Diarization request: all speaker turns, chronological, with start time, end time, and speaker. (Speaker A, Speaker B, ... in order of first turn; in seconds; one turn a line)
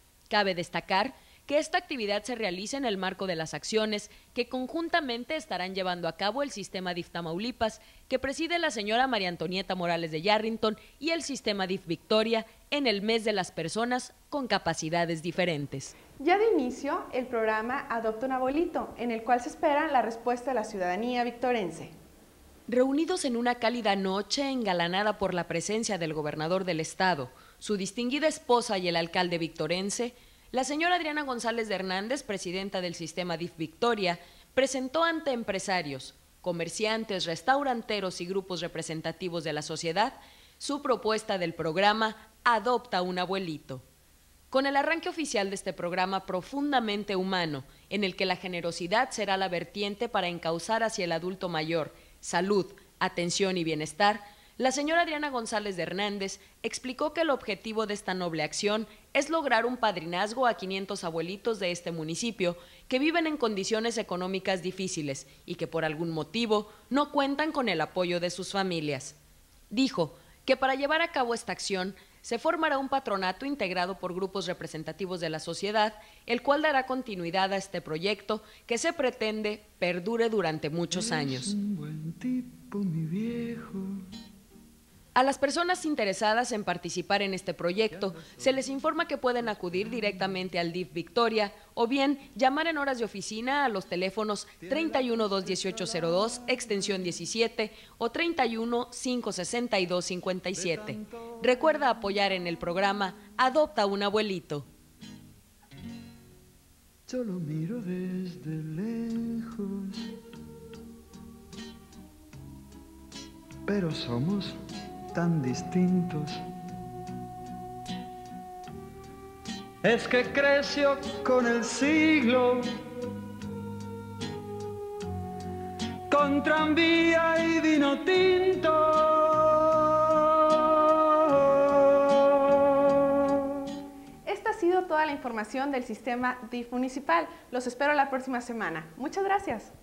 Speaker A: 0.3-15.9
Speaker B: 16.2-21.9
Speaker A: 22.7-43.8
Speaker A: 44.5-69.2
Speaker A: 69.7-81.5
Speaker C: 80.9-84.0
Speaker A: 85.2-104.7
Speaker C: 100.6-101.0
Speaker C: 107.1-110.0
Speaker C: 113.7-114.6
Speaker C: 115.1-116.4
Speaker C: 119.8-122.7
Speaker C: 126.1-130.1
Speaker B: 134.2-139.7